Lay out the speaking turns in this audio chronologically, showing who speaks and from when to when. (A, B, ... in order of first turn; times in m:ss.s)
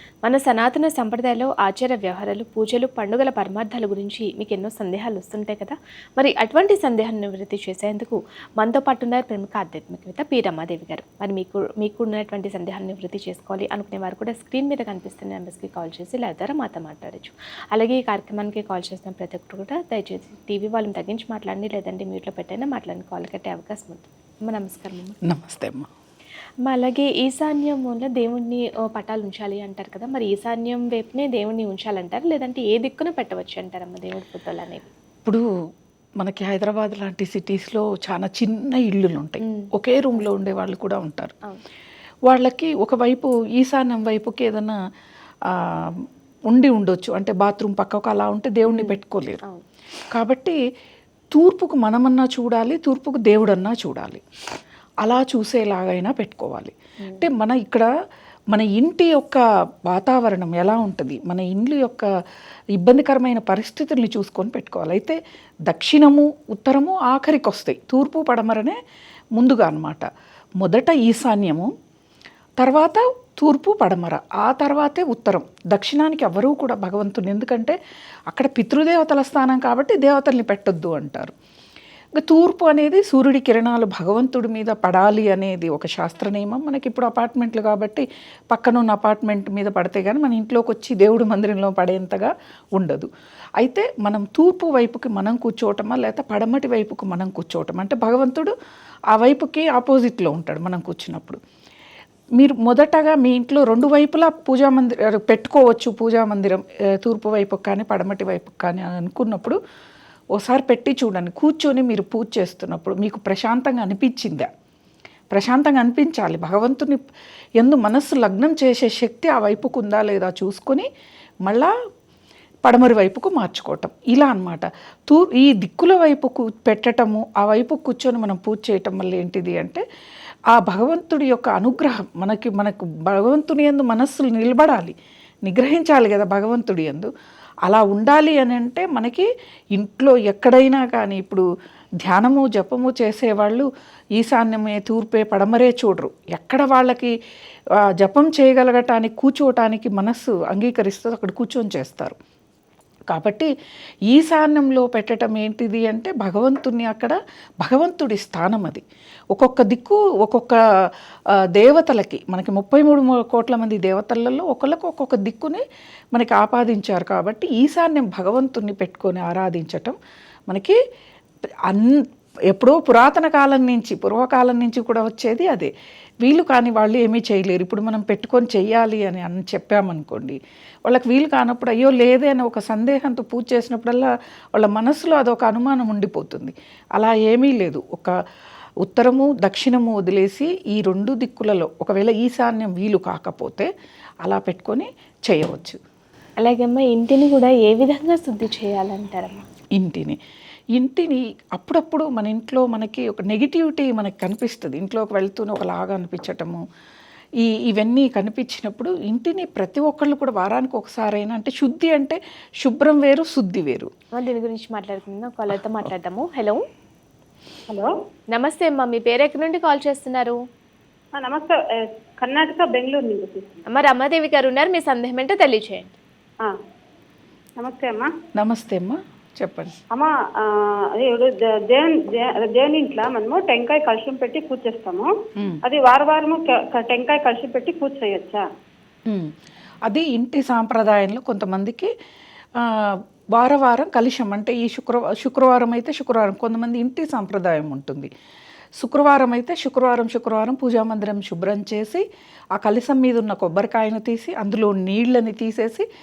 0:00.2-0:25.2 A
0:25.2-0:25.9 B
0:26.6-0:34.9 A
0:36.2-0:41.3 B
0:39.4-0:39.7 A
0:42.2-0:44.8 B
0:45.4-0:49.4 B
0:48.7-0:49.6 A
0:50.1-0:50.6 B
0:51.3-0:54.2 B
0:55.0-0:57.9 B
0:58.5-1:02.1 B
1:02.8-1:08.8 B
1:09.4-1:10.1 B
1:10.6-1:11.7 B
1:12.6-1:17.8 B
1:18.3-1:21.3 B
1:22.2-1:38.5 B
1:39.1-1:41.4 B
1:42.4-1:49.6 B
1:50.3-1:54.5 B
1:55.3-1:57.0 B
1:57.6-2:00.9 B
2:01.4-2:01.7 B
2:02.6-2:09.8 B
2:10.5-2:17.1 B
2:17.7-2:21.4 B
2:22.0-2:27.1 B
2:28.0-2:32.2 B
2:33.1-2:33.5 B
2:34.1-2:40.6 B
2:41.6-2:50.0 B
2:50.5-2:50.8 B
2:51.7-2:55.7 B
2:56.2-3:08.1 B
3:08.8-3:13.7 B
3:14.2-3:15.8 B
3:16.4-3:19.5 A
3:19.8-3:20.2 B
3:20.7-3:26.6 B
3:27.4-3:33.9 B
3:34.2-3:36.6 A
3:38.3-3:40.4 A
3:41.2-3:43.6 C
3:43.7-3:45.9 A
3:47.6-3:48.1 C
3:48.3-3:49.8 B
3:49.9-3:55.1 C
3:55.6-3:58.4 C
3:59.1-3:59.3 B
3:59.8-4:01.9 B
4:02.6-4:08.1 B
4:08.8-4:12.0 B
4:12.6-4:15.8 B